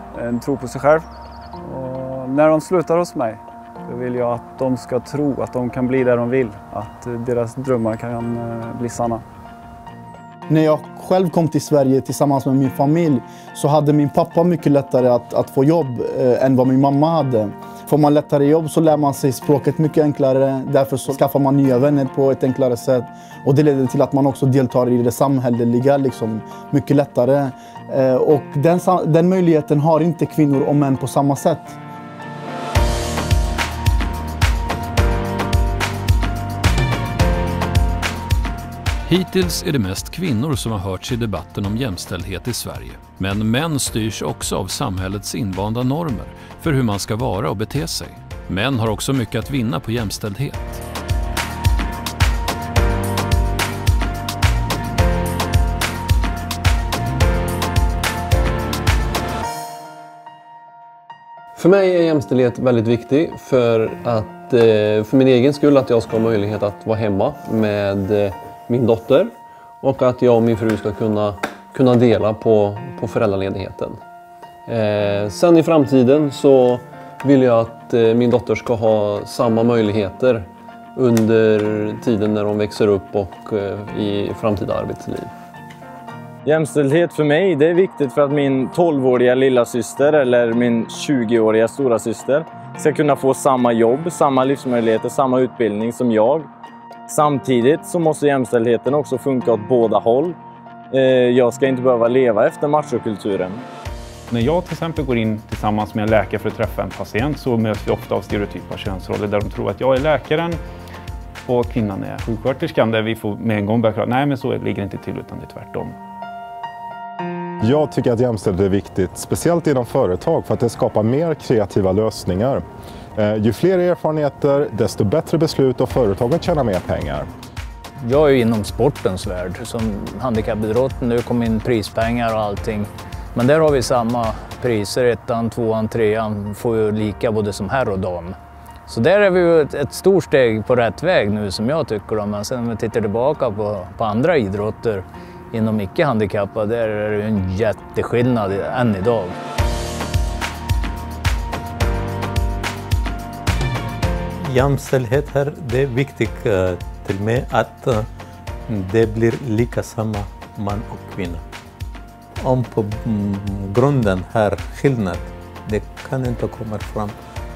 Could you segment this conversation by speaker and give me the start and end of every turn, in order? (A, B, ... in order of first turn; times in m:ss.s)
0:00.1-0:01.1 A
0:01.6-0:09.2 A
0:10.5-0:31.8 B
0:39.1-0:50.8 C
1:01.6-1:14.0 D
1:14.7-1:25.3 D
1:26.4-1:36.5 E
1:37.1-1:40.4 E
1:40.9-1:43.6 E
1:44.3-1:50.6 F
1:51.5-1:56.0 F
1:57.6-2:02.6 G
2:03.2-2:07.3 G
2:08.0-2:18.4 H
2:18.9-2:29.4 H
2:34.4-2:38.0 I
2:38.7-2:41.4 I
2:42.4-2:47.2 I